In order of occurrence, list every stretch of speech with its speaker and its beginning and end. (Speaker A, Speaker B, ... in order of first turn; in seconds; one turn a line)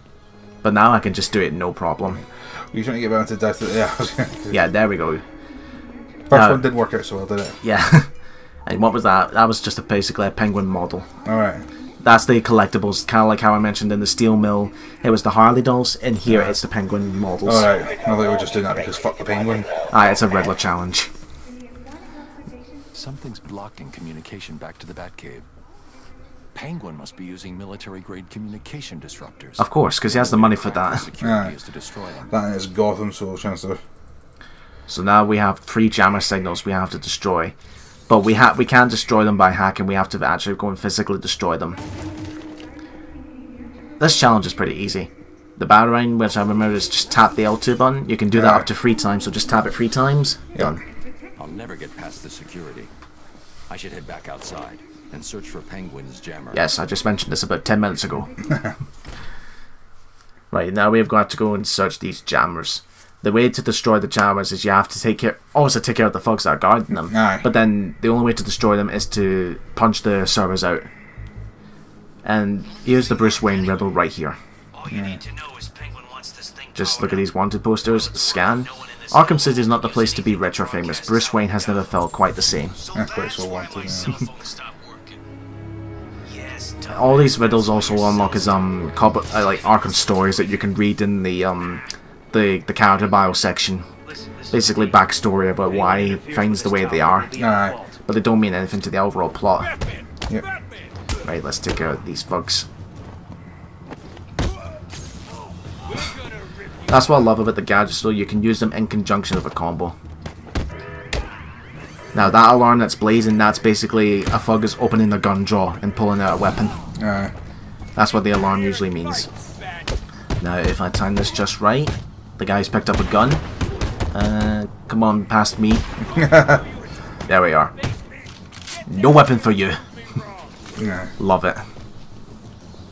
Speaker A: 0.6-2.2
Speaker B: 2.2-4.6
Speaker A: 4.5-5.2
Speaker B: 6.3-7.6
Speaker A: 6.3-6.7
Speaker A: 7.6-8.1
Speaker A: 8.7-11.1
Speaker B: 11.2-11.7
Speaker A: 12.0-17.7
Speaker B: 16.3-16.6
Speaker B: 17.4-19.7
Speaker A: 19.9-21.1
Speaker C: 22.9-25.5
Speaker C: 26.5-32.3
Speaker A: 29.6-31.1
Speaker B: 31.2-31.5
Speaker B: 32.3-33.8
Speaker A: 34.9-37.5
Speaker A: 38.1-41.8
Speaker A: 44.0-50.8
Speaker B: 48.3-48.7
Speaker C: 51.4-52.9
Speaker C: 53.7-56.6
Speaker A: 56.5-58.3
Speaker A: 60.5-70.9
Speaker B: 67.1-67.5
Speaker A: 72.2-74.4
Speaker D: 72.8-73.9
Speaker D: 74.7-81.9
Speaker B: 74.9-75.2
Speaker A: 76.8-82.8
Speaker D: 82.7-85.2
Speaker B: 82.9-84.1
Speaker D: 86.3-90.6
Speaker A: 86.9-93.9
Speaker D: 94.0-95.0
Speaker A: 94.5-97.4
Speaker D: 95.6-98.0
Speaker B: 97.3-97.8
Speaker A: 98.1-99.7
Speaker D: 99.6-100.9
Speaker A: 101.2-102.7
Speaker D: 105.8-107.2
Speaker A: 106.9-110.0
Speaker A: 112.1-116.8
Speaker B: 117.0-117.3
Speaker A: 118.0-119.3
Speaker D: 118.9-119.8
Speaker A: 120.4-123.4
Speaker A: 124.1-125.9
Speaker D: 126.1-126.7
Speaker B: 126.2-126.6
Speaker A: 127.3-127.7
Speaker A: 128.9-129.8
Speaker B: 130.8-131.1
Speaker A: 131.2-131.6